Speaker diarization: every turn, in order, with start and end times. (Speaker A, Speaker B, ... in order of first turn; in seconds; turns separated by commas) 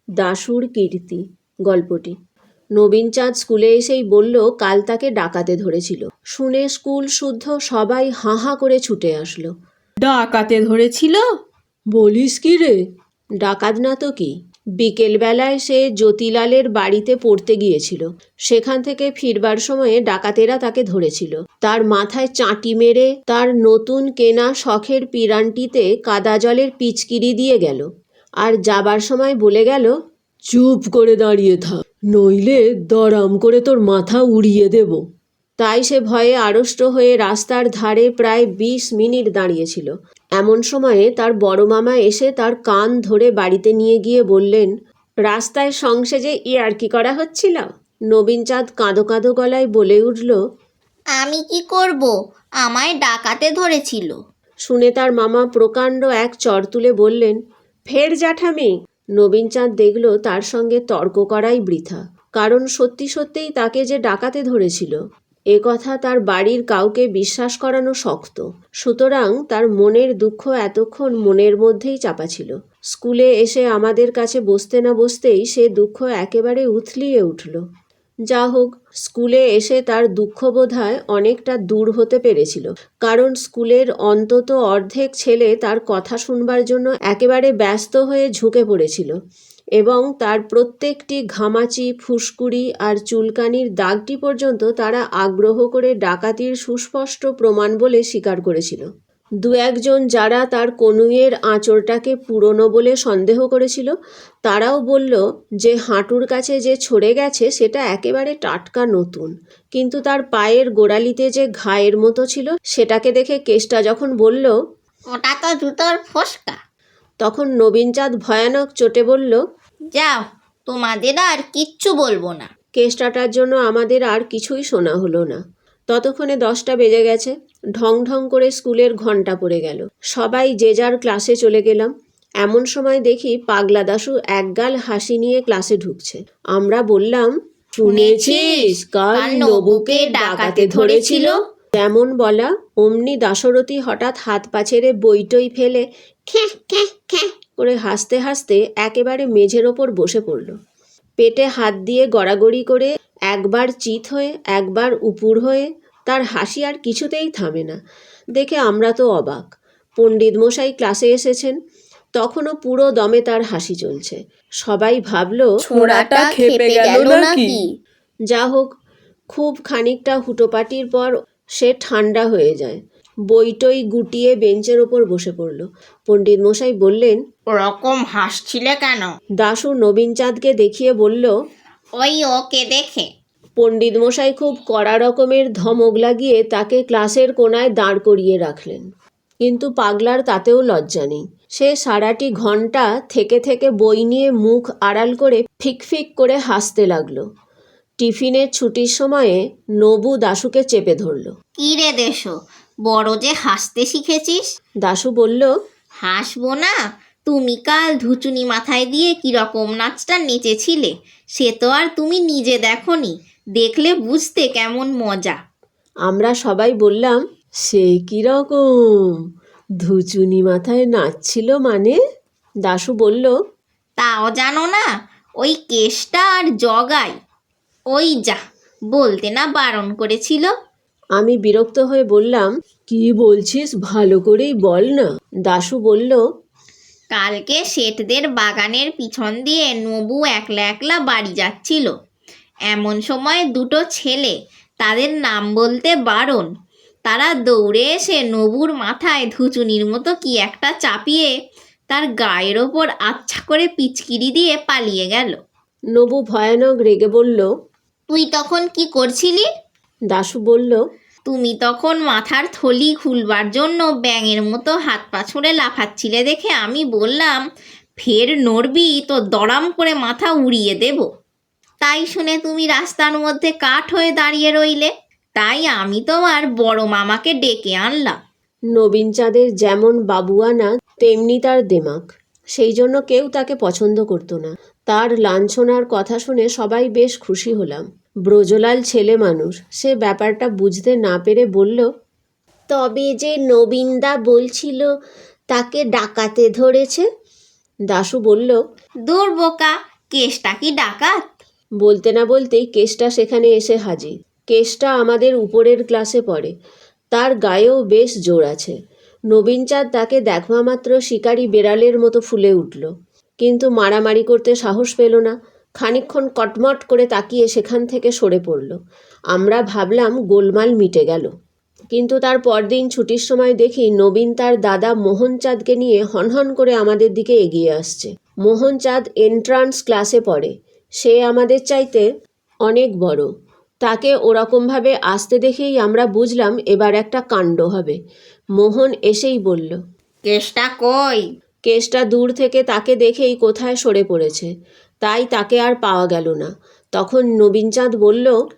Speaker A: 0.2-2.1, Speaker A: 2.8-9.5, Speaker B: 10.1-11.1, Speaker A: 11.9-12.8, Speaker A: 13.4-27.9, Speaker A: 28.4-29.9, Speaker A: 30.5-35.0, Speaker A: 35.6-44.7, Speaker A: 45.3-50.4, Speaker C: 51.2-54.1, Speaker A: 54.7-57.4, Speaker A: 57.9-64.9, Speaker A: 65.5-77.6, Speaker A: 78.3-89.1, Speaker A: 89.8-98.8, Speaker A: 99.4-103.9, Speaker A: 104.5-114.5, Speaker C: 115.1-116.6, Speaker A: 117.2-119.4, Speaker C: 119.9-122.5, Speaker A: 122.8-125.4, Speaker A: 125.9-131.9, Speaker A: 132.4-150.5, Speaker C: 137.8-141.3, Speaker A: 151.2-157.8, Speaker A: 158.4-159.4, Speaker A: 160.0-161.5, Speaker A: 162.2-165.5, Speaker B: 165.7-167.6, Speaker C: 165.7-167.6, Speaker A: 168.3-168.7, Speaker A: 169.3-172.8, Speaker A: 173.3-177.2, Speaker C: 177.5-179.1, Speaker A: 179.4-181.3, Speaker C: 182.0-183.1, Speaker A: 183.6-188.8, Speaker A: 189.4-197.2, Speaker A: 198.0-201.3, Speaker C: 201.6-202.3, Speaker C: 202.8-204.4, Speaker A: 204.8-205.5, Speaker C: 206.0-206.8, Speaker C: 207.3-215.4, Speaker A: 216.1-218.6, Speaker A: 219.8-222.0, Speaker A: 222.7-223.3, Speaker C: 224.0-224.8, Speaker C: 225.4-227.1, Speaker C: 227.9-228.4, Speaker C: 228.9-230.5, Speaker A: 231.2-236.2, Speaker C: 237.1-241.9, Speaker C: 242.7-246.5, Speaker C: 247.1-251.3, Speaker C: 251.9-255.4, Speaker A: 255.9-257.5, Speaker C: 258.1-259.5, Speaker A: 260.1-260.8, Speaker C: 261.3-267.4, Speaker C: 268.0-271.1, Speaker C: 271.8-278.2, Speaker A: 278.8-291.8, Speaker A: 292.7-294.9, Speaker A: 295.5-297.0, Speaker A: 297.9-298.6, Speaker C: 299.1-301.2, Speaker A: 301.8-306.5, Speaker A: 307.1-308.7, Speaker A: 309.3-312.9, Speaker A: 313.4-318.8, Speaker A: 319.3-321.3, Speaker A: 321.9-330.5, Speaker A: 331.0-332.0, Speaker A: 332.7-333.3, Speaker A: 333.8-338.0, Speaker A: 338.6-339.8, Speaker C: 340.3-341.2, Speaker A: 341.7-344.5, Speaker A: 345.0-348.3